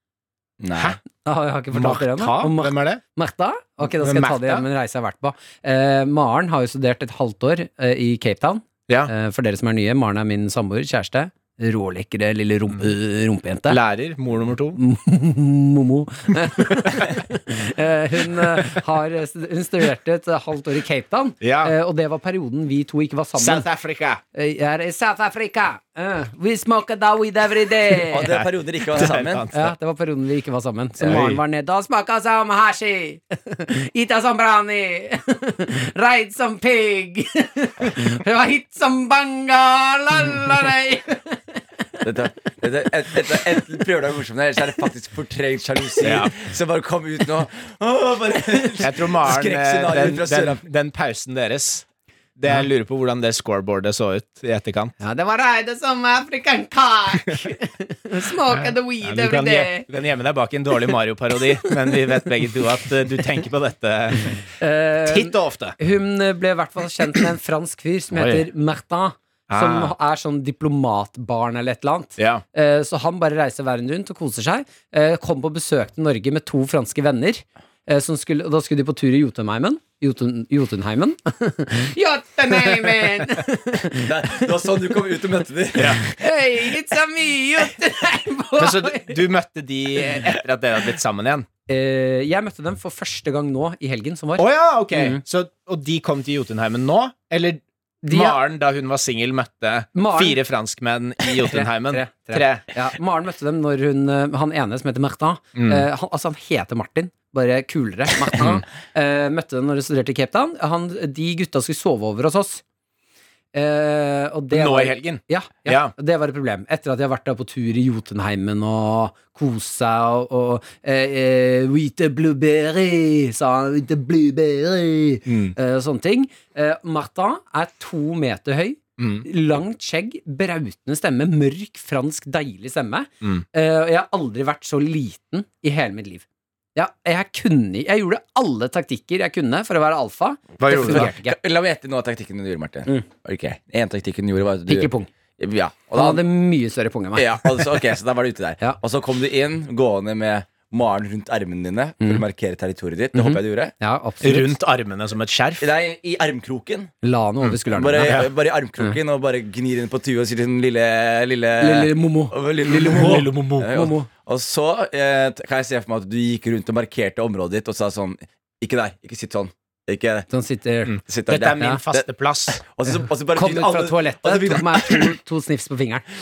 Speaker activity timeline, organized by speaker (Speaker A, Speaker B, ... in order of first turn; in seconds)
Speaker A: 0.6-1.0, 28.1-29.5, 42.0-50.6, 84.0-86.2, 140.8-146.2, 147.1-153.7, 155.6-156.9, 157.7-170.3, 171.1-175.1
Speaker B: 1.2-13.8, 14.8-23.6, 24.3-28.3, 29.0-41.6, 55.0-59.9, 64.6-84.4, 86.0-89.2, 91.7-95.2, 98.0-98.4, 99.9-100.4, 101.4-112.6, 113.5-141.3, 144.7-145.1, 145.9-147.7, 153.1-154.5, 157.0-158.2, 161.6-164.1, 170.3-170.9, 173.3-176.0
Speaker C: 1.7-3.0, 4.0-4.6, 13.7-14.8, 16.7-17.1, 18.3-18.7, 21.4-21.7, 23.4-24.2, 28.3-29.7, 31.0-31.4, 46.0-46.4, 48.8-54.9, 58.5-64.4, 65.0-65.8, 68.1-68.4, 69.5-69.9, 72.2-72.4, 85.8-86.0, 88.6-91.5, 94.4-97.6, 98.1-102.6, 105.5-105.8, 114.5-115.9, 125.3-125.5, 129.0-129.3, 140.6-141.1, 154.2-155.7, 157.4-158.3, 162.7-163.7, 170.8-172.6